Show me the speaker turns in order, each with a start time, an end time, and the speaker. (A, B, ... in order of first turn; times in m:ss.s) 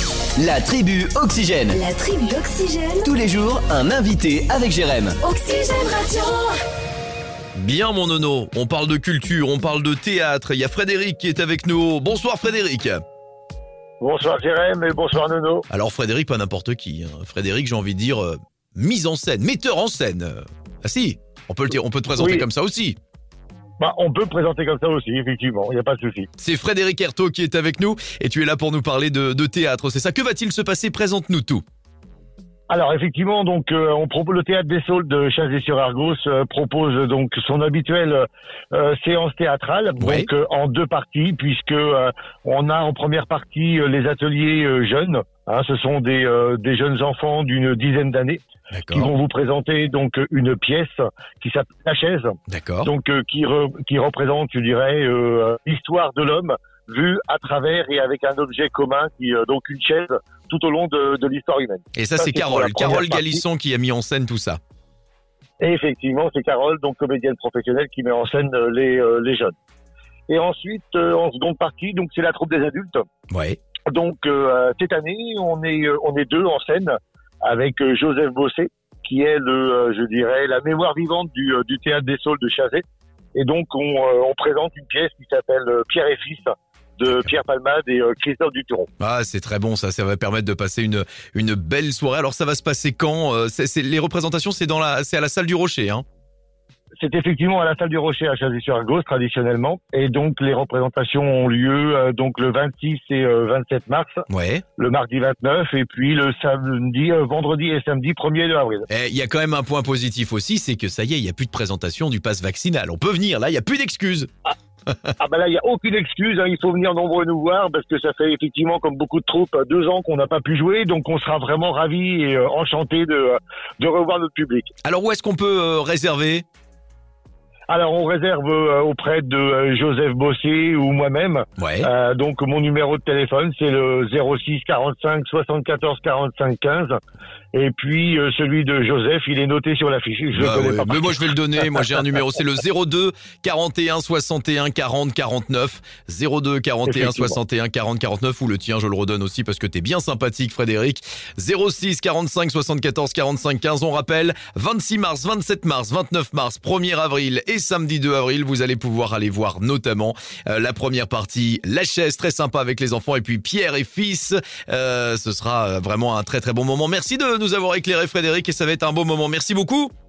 0:00.4-0:01.7 A
0:01.7-0:03.1 B
0:03.1-0:05.1 A
0:05.2-0:06.6 B
0:07.5-0:13.0 C
0:14.0-0:15.6 D
0:15.7-0:23.0 C
0:22.2-0:22.4 D
0:23.8-0:26.3 D
0:26.4-0:31.6 C
0:32.7-1:03.4 D
0:40.0-0:40.3 C
0:48.7-0:49.1 C
0:52.5-0:52.9 C
1:02.0-1:04.6 C
1:05.6-1:09.5 D
1:10.3-1:13.0 D
1:13.3-1:13.6 C
1:13.9-1:22.8 D
1:23.3-1:28.9 D
1:29.0-1:36.0 C
1:37.0-1:44.2 D
1:44.3-1:44.6 C
1:44.8-1:48.9 D
1:48.9-1:54.3 C
1:55.2-2:04.7 D
2:04.8-2:06.4 C
2:07.7-2:17.0 D
2:11.6-2:11.9 C
2:17.5-2:21.1 D
2:20.3-2:49.9 C
2:26.9-2:27.4 D